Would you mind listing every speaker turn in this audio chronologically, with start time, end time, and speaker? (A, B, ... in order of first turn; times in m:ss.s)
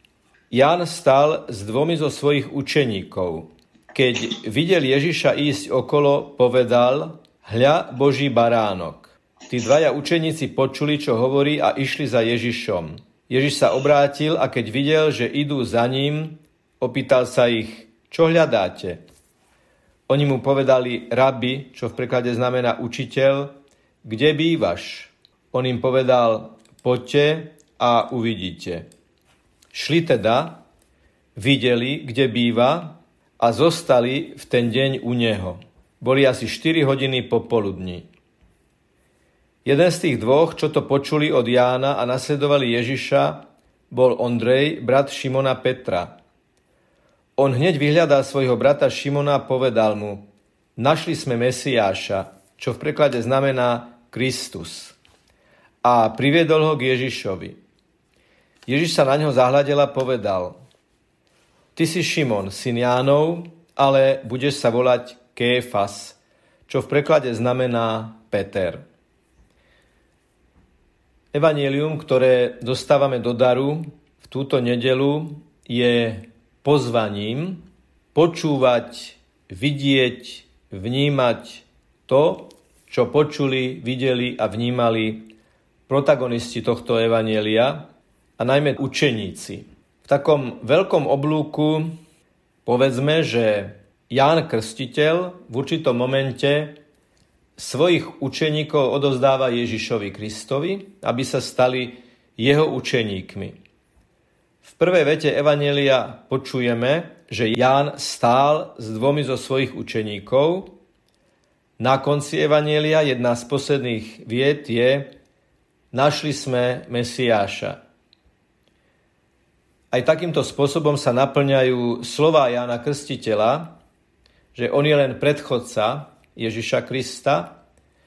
0:00.5-0:19.0 A
0:20.1-0:23.5 A
0:24.0-0:28.8 A
0:29.7-0:30.6 A
0:31.4-0:38.1 A
0:39.6-0:43.4 A
0:43.9-0:46.1 A
0:47.4-0:50.2 A
0:50.8-0:55.0 A
0:55.8-0:57.6 A
0:58.7-1:00.6 A
1:01.8-1:08.8 A
1:11.3-1:25.3 A
1:25.9-1:27.8 A
1:28.4-1:31.9 A
1:32.7-1:36.8 A
1:37.6-1:43.6 A
1:44.6-1:50.7 A
1:51.8-1:55.1 A
1:55.9-1:57.8 A
1:59.9-2:03.7 A
2:04.5-2:07.5 A